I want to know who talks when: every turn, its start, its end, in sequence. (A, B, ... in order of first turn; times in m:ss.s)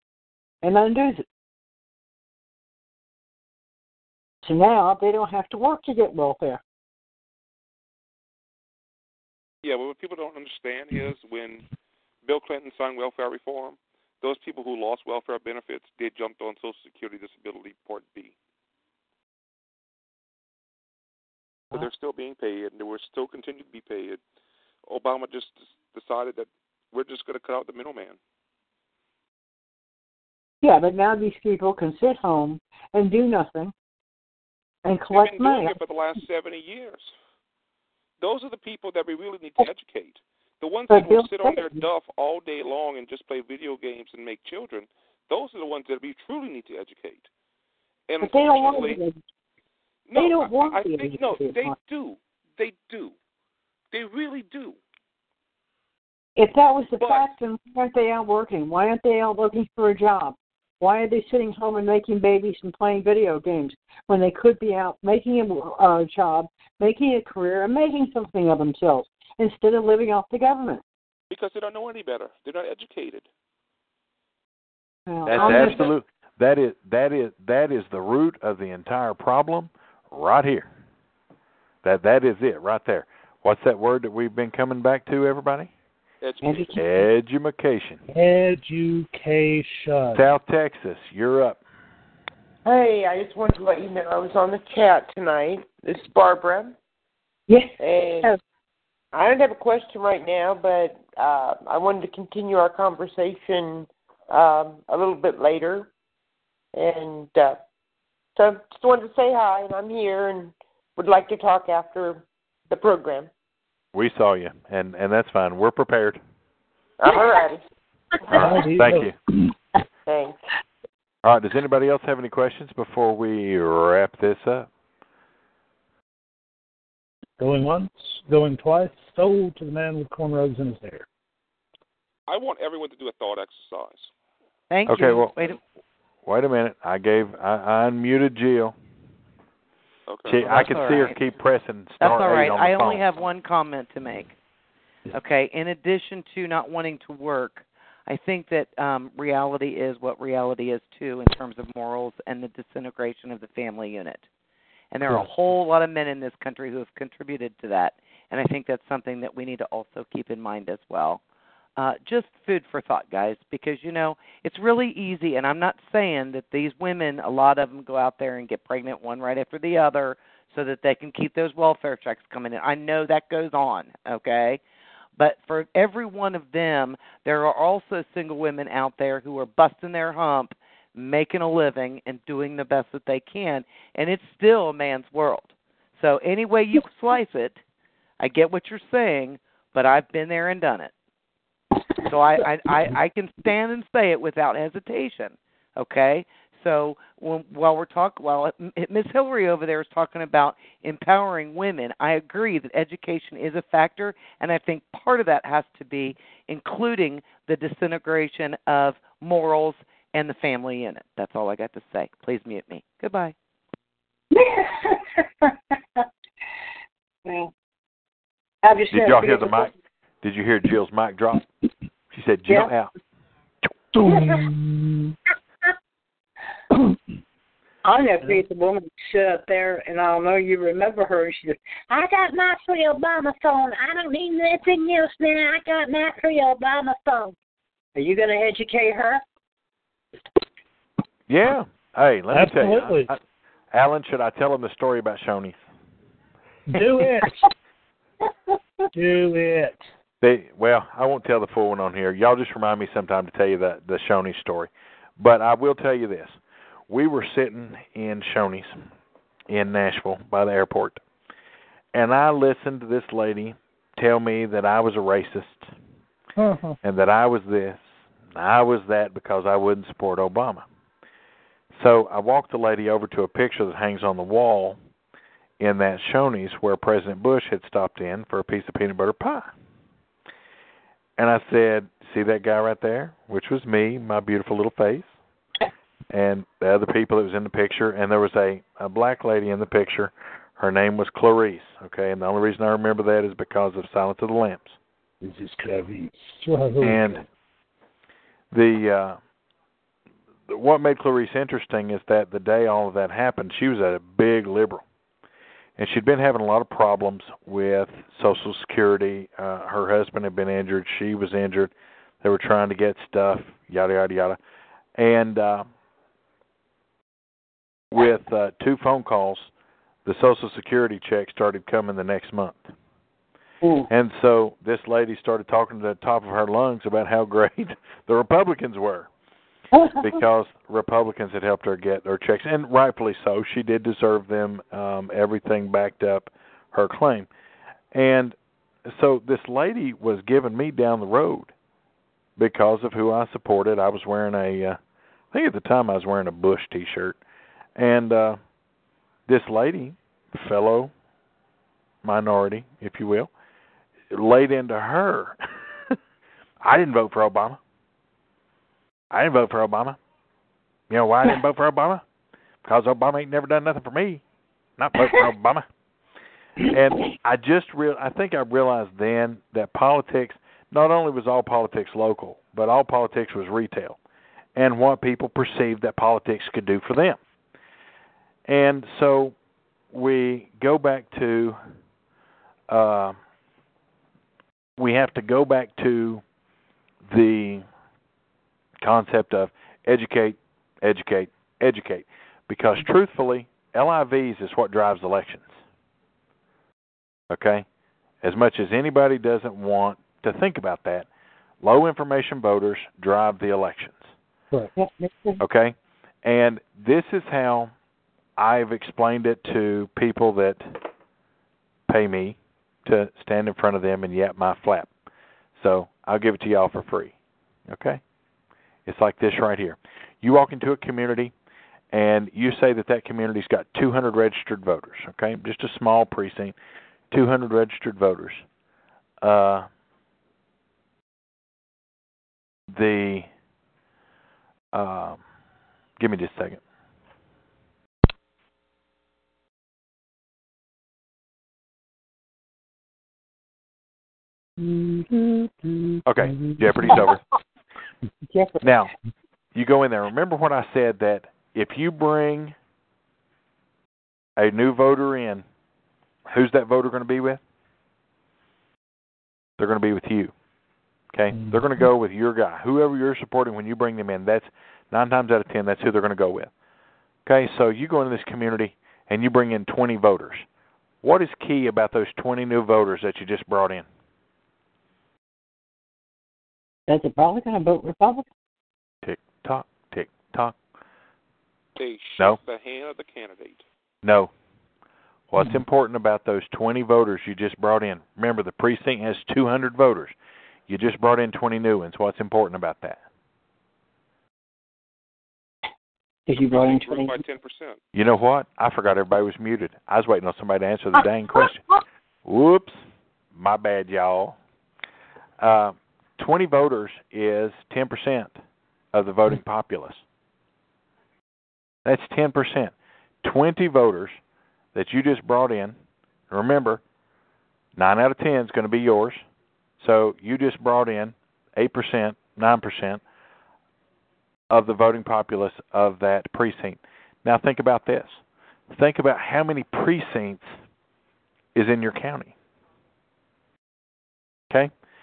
0:00.6-0:01.2 A
0:04.4-0:06.6 A
0:09.6-0:11.6 B
0:12.2-0:18.3 B
0:21.7-0:24.2 B
0:24.9-0:28.2 B
0:30.6-0:33.7 A
0:34.8-0:35.8 A
0:35.1-0:37.1 B
0:38.2-0:47.3 B
0:40.9-0:41.8 A
0:48.1-0:49.0 B
0:48.2-0:49.2 A
0:50.1-0:53.1 B
0:50.2-0:51.8 A
0:53.9-0:54.8 B
0:56.4-1:10.8 A
0:57.0-0:57.3 B
1:11.3-1:13.3 B
1:15.1-1:15.9 A
1:15.3-1:15.9 B
1:15.3-1:20.7 C
1:21.8-1:25.7 C
1:26.2-1:26.8 B
1:26.4-1:26.9 A
1:26.8-1:28.0 C
1:28.1-1:30.3 D
1:30.1-1:31.6 C
1:32.6-1:36.7 E
1:37.5-1:38.4 A
1:37.8-1:38.3 E
1:39.1-1:45.9 E
1:46.7-1:47.6 E
1:48.4-1:53.3 E
1:53.9-1:56.2 C
1:57.0-1:57.6 E
1:58.3-1:59.1 D
1:58.3-1:59.1 C
2:00.1-2:00.4 E
2:01.2-2:04.7 C
2:07.4-2:11.0 D
2:12.3-2:14.1 B
2:14.7-2:15.6 F
2:14.8-2:15.3 C
2:16.2-2:18.7 C
2:20.1-2:21.0 B
2:20.2-2:23.1 C
2:20.4-2:21.1 F
2:22.0-2:24.3 F
2:25.1-2:34.2 F
2:34.9-2:41.2 F
2:41.8-2:54.6 F
2:55.2-3:07.6 F
3:08.2-3:10.9 F
3:12.0-3:33.3 F
3:34.3-3:35.2 A
3:37.2-3:37.5 A
3:38.6-3:39.7 A
3:38.9-3:41.4 C
3:42.1-3:42.9 C
3:42.5-3:42.7 A
3:43.9-3:45.1 D
3:44.0-3:44.5 A
3:47.8-3:57.3 A
3:57.9-3:59.2 A
4:01.3-4:03.2 C
4:02.3-4:03.1 D
4:03.7-4:05.6 C
4:06.7-4:07.4 D
4:08.9-4:09.8 D
4:10.2-4:16.4 C
4:16.9-4:18.8 C
4:19.5-4:21.0 C
4:21.9-4:25.7 C
4:26.4-4:26.8 D
4:26.8-4:30.6 C
4:31.7-4:34.8 C
4:35.6-4:39.5 C
4:41.2-4:45.1 C
4:46.1-4:54.8 C
4:55.2-4:57.2 D
4:56.8-4:57.2 C
4:58.5-4:59.2 C
5:00.5-5:04.8 C
5:05.8-5:14.4 C
5:14.9-5:15.7 C
5:17.9-5:19.5 C
5:20.0-5:22.7 C
5:23.6-5:23.9 A
5:23.9-5:29.1 C
5:29.7-5:30.2 A
5:30.0-5:37.3 C
5:37.9-5:38.3 C
5:38.8-5:41.5 C
5:42.4-5:44.8 C
5:45.3-5:47.2 C
5:47.8-5:48.4 C
5:49.3-5:50.9 C
5:52.0-5:53.3 C
5:54.1-5:55.4 C
5:56.6-5:57.6 C
5:59.1-6:00.0 C
6:00.9-6:02.0 C
6:02.6-6:04.2 C
6:04.8-6:05.6 C
6:06.7-6:14.0 C
6:14.5-6:17.2 C
6:18.5-6:19.3 C
6:19.9-6:21.6 C
6:22.7-6:23.2 C
6:24.8-6:26.2 C
6:27.1-6:27.6 C
6:28.8-6:35.6 C
6:37.3-6:37.6 C
6:38.2-6:41.1 C
6:41.6-6:44.1 C
6:44.8-6:45.4 A
6:45.4-6:47.7 C
6:48.4-6:50.8 C
6:51.9-6:54.9 C
6:55.6-6:57.1 C
6:57.7-6:58.0 C
6:58.8-7:01.3 C
7:01.9-7:06.5 C
7:07.1-7:08.4 C
7:09.2-7:09.7 C
7:12.7-7:13.3 C
7:14.7-7:15.2 C
7:16.0-7:16.6 C
7:24.6-7:27.2 A
7:26.0-7:27.2 C
7:28.3-7:28.7 A
7:28.6-7:28.9 C
7:29.5-7:32.5 C
7:34.4-7:35.4 C
7:36.3-7:37.4 C
7:39.6-7:40.3 C
7:41.1-7:46.5 C
7:47.2-7:50.4 C
7:51.0-7:53.8 C
7:56.9-7:58.2 A
7:59.0-8:00.6 C
8:01.8-8:03.6 B
8:04.0-8:04.3 C
8:05.3-8:10.1 C
8:10.7-8:13.0 C
8:16.3-8:17.2 A
8:16.5-8:17.8 B
8:17.9-8:21.6 C
8:22.2-8:22.8 C
8:23.3-8:24.4 C
8:25.4-8:28.3 C
8:28.9-8:30.0 C
8:31.8-8:34.2 C
8:34.7-8:35.8 C
8:36.3-8:36.8 C
8:37.8-8:39.2 C
8:39.8-8:43.0 C
8:44.5-8:48.2 C
8:48.7-8:50.5 C
8:51.5-8:52.3 C